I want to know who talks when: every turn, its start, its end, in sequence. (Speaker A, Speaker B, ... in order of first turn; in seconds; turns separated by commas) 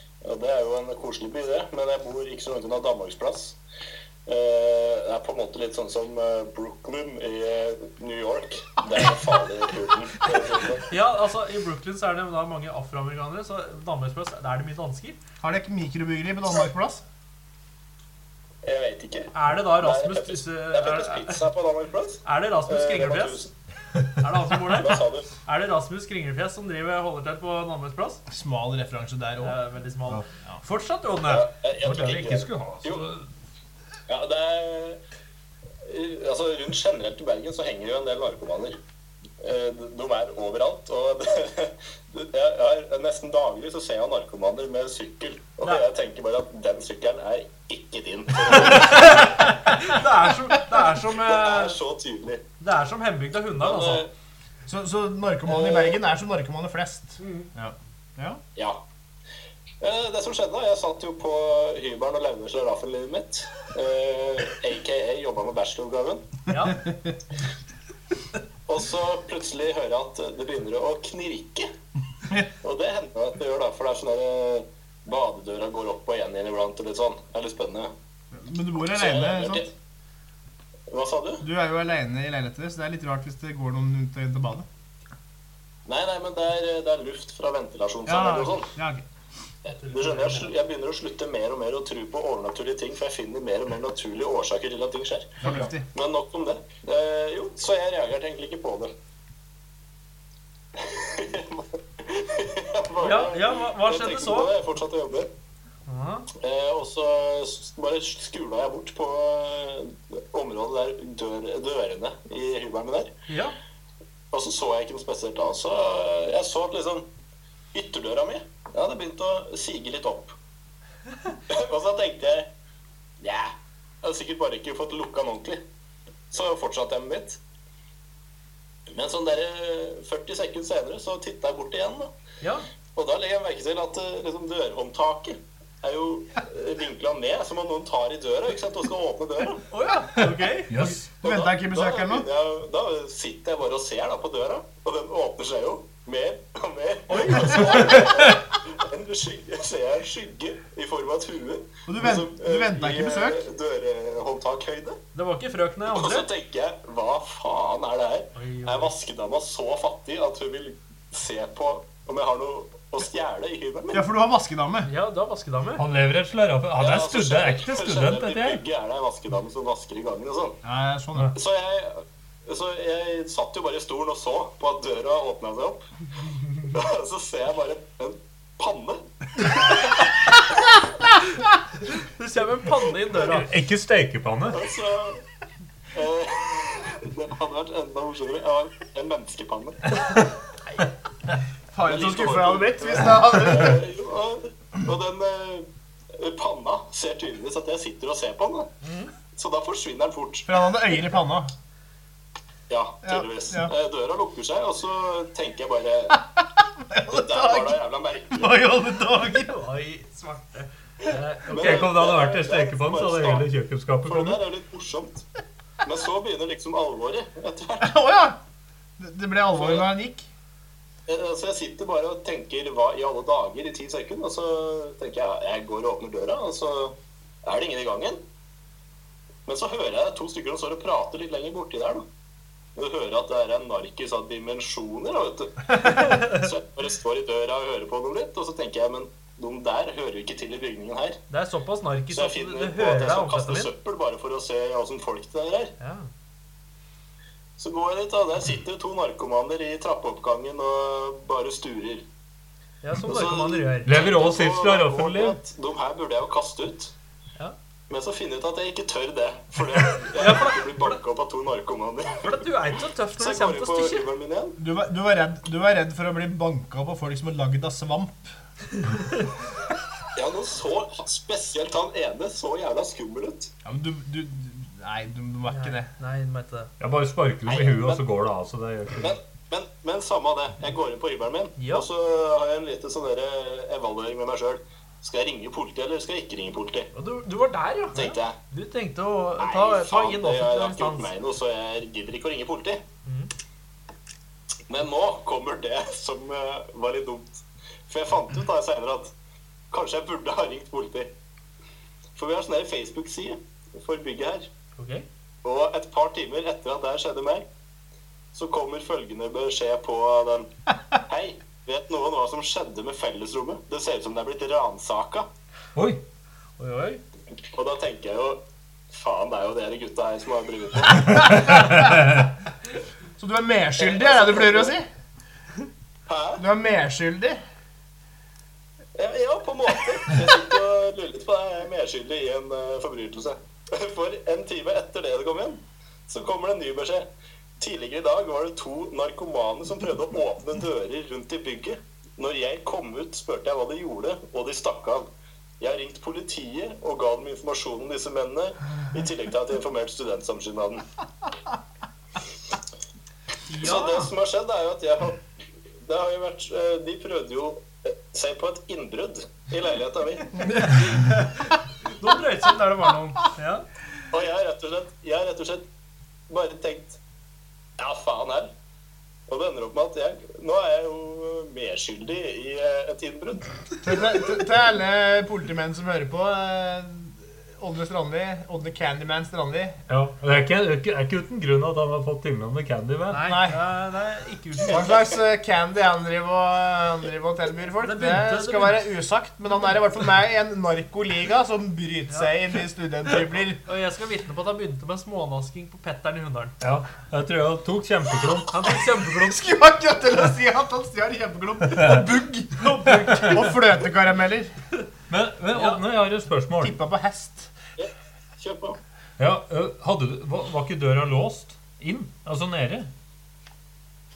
Speaker A: 0.2-3.6, Speaker A: 4.2-10.9, Speaker B: 10.9-15.2, Speaker C: 15.4-17.0, Speaker A: 18.6-23.5, Speaker B: 19.3-21.5, Speaker B: 22.2-23.4, Speaker B: 24.2-28.2, Speaker A: 24.6-25.3, Speaker C: 28.3-29.6, Speaker B: 29.4-31.5, Speaker A: 31.2-33.0, Speaker D: 31.8-33.3, Speaker A: 34.1-35.0, Speaker A: 35.8-38.8, Speaker A: 39.4-50.0, Speaker B: 48.6-51.8, Speaker A: 50.9-52.4, Speaker B: 52.6-54.0, Speaker A: 53.6-54.1, Speaker C: 54.7-58.4, Speaker A: 55.5-56.0, Speaker B: 57.2-57.5, Speaker A: 58.5-58.8, Speaker A: 59.8-66.3, Speaker B: 66.5-66.9, Speaker C: 66.8-67.1, Speaker A: 68.7-71.7, Speaker A: 72.6-77.9, Speaker C: 78.3-79.7, Speaker A: 78.9-79.7, Speaker A: 80.9-81.5, Speaker C: 81.4-84.7, Speaker A: 85.8-88.7, Speaker C: 88.0-89.0, Speaker A: 89.7-98.9, Speaker B: 89.7-90.5, Speaker C: 95.4-95.9, Speaker A: 100.8-105.3, Speaker B: 103.0-104.5, Speaker B: 105.9-106.3, Speaker A: 106.3-113.1, Speaker B: 113.3-113.5, Speaker A: 114.3-117.1, Speaker A: 117.7-120.3, Speaker A: 121.5-122.5, Speaker A: 123.2-125.6, Speaker A: 126.3-127.4, Speaker A: 128.9-132.1, Speaker B: 132.4-132.7, Speaker A: 132.9-139.6, Speaker B: 139.7-141.0, Speaker D: 140.7-141.1, Speaker A: 141.2-155.0, Speaker C: 141.2-142.3, Speaker B: 147.1-148.0, Speaker C: 151.9-153.4, Speaker B: 155.1-156.3, Speaker A: 155.9-164.0, Speaker B: 158.3-158.9, Speaker C: 163.9-164.9, Speaker B: 164.8-165.8, Speaker D: 165.8-168.6, Speaker A: 166.8-170.6, Speaker C: 170.6-171.3, Speaker A: 171.3-175.8, Speaker A: 176.5-179.9, Speaker B: 181.8-183.5, Speaker D: 183.2-184.6, Speaker A: 184.5-185.2, Speaker A: 185.9-190.0, Speaker C: 191.7-193.8, Speaker A: 191.8-198.7, Speaker B: 198.8-199.1, Speaker A: 199.3-200.5, Speaker C: 200.5-201.5, Speaker A: 202.7-206.2, Speaker C: 203.0-203.7, Speaker C: 206.1-207.8, Speaker A: 207.1-208.6, Speaker B: 208.3-211.9, Speaker A: 211.0-213.5, Speaker D: 211.1-214.4, Speaker A: 214.1-215.2, Speaker A: 215.8-218.0, Speaker C: 217.8-218.4, Speaker C: 219.0-220.3, Speaker A: 219.6-219.9, Speaker A: 221.1-228.2, Speaker A: 229.4-232.1, Speaker A: 232.7-241.2, Speaker B: 235.8-236.4, Speaker B: 241.3-243.7, Speaker A: 242.1-245.7, Speaker B: 245.8-246.1, Speaker A: 247.6-252.1, Speaker B: 252.8-254.0, Speaker A: 253.0-256.9, Speaker D: 253.8-255.4, Speaker A: 257.9-262.5, Speaker B: 260.1-261.0, Speaker B: 262.2-264.1, Speaker A: 263.2-264.6, Speaker C: 264.6-268.3, Speaker A: 270.1-273.5, Speaker C: 273.6-275.9, Speaker B: 275.5-276.7, Speaker D: 276.8-279.2, Speaker A: 277.4-278.0, Speaker A: 279.0-286.9, Speaker B: 281.6-281.9, Speaker B: 286.9-291.1, Speaker A: 287.9-288.4, Speaker A: 289.4-292.8, Speaker B: 293.1-293.3, Speaker A: 294.7-299.1, Speaker A: 299.7-301.1, Speaker A: 302.1-304.5, Speaker B: 304.8-305.1, Speaker A: 305.4-307.5, Speaker A: 308.3-315.3, Speaker D: 315.7-316.0, Speaker B: 316.6-317.0, Speaker A: 317.5-321.6, Speaker C: 321.0-322.1, Speaker D: 321.3-321.6, Speaker C: 323.2-324.9, Speaker A: 323.8-324.7, Speaker A: 326.1-326.4, Speaker C: 326.4-327.4, Speaker A: 328.9-337.1, Speaker A: 337.6-345.1, Speaker A: 345.6-350.8, Speaker B: 353.5-354.1, Speaker A: 353.6-355.2, Speaker A: 355.8-360.7, Speaker B: 360.6-363.6, Speaker A: 364.1-365.6, Speaker A: 366.3-367.0, Speaker A: 367.8-368.5, Speaker A: 369.3-373.7, Speaker C: 373.8-379.8, Speaker D: 379.9-383.2, Speaker B: 383.1-385.0, Speaker C: 383.2-383.6, Speaker C: 384.7-393.6, Speaker B: 387.8-388.9, Speaker B: 393.6-396.6, Speaker D: 396.6-398.7, Speaker B: 398.5-399.4, Speaker C: 399.1-404.5, Speaker D: 401.7-402.0, Speaker B: 402.6-403.6, Speaker D: 405.1-406.7, Speaker B: 405.5-405.8, Speaker C: 406.6-407.5, Speaker A: 407.8-408.8, Speaker D: 409.2-412.9